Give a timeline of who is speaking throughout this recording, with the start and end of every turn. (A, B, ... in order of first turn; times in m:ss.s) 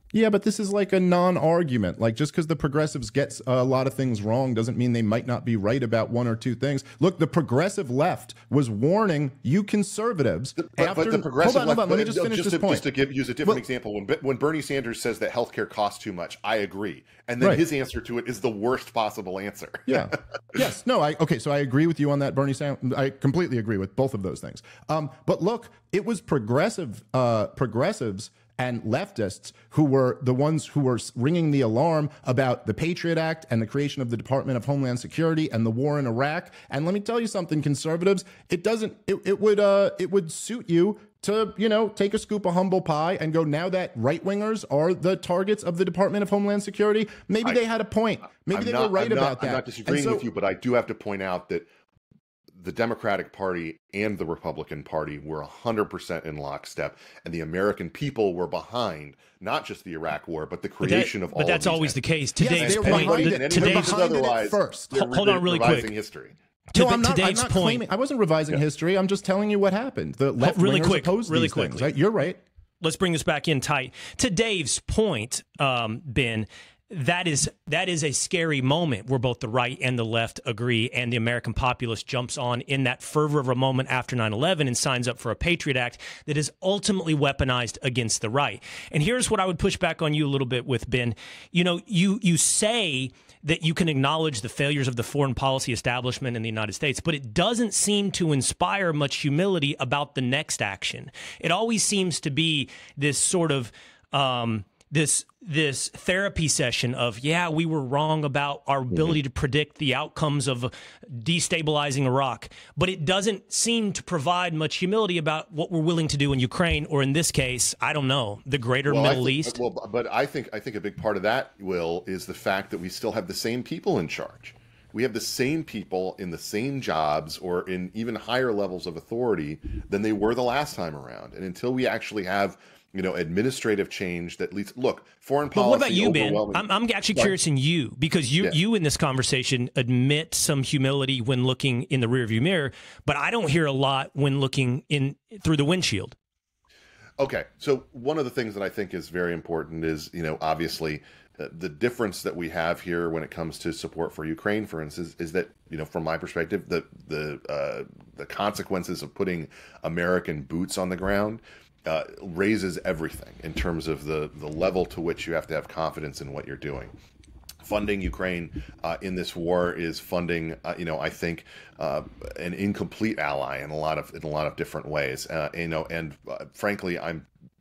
0:00.1-0:12.9 A
0:10.6-0:20.6 B
0:19.9-0:50.3 A
0:48.5-0:51.7 B
0:52.5-1:02.0 B
1:00.8-1:04.0 C
1:02.4-1:04.9 A
1:02.6-1:06.4 B
1:04.9-1:05.9 C
1:06.7-1:07.8 C
1:06.8-1:12.4 A
1:10.4-1:11.9 C
1:12.8-1:59.6 C
1:58.9-2:17.3 B
2:15.6-2:26.2 C
2:27.2-2:46.9 B
2:47.6-2:57.3 B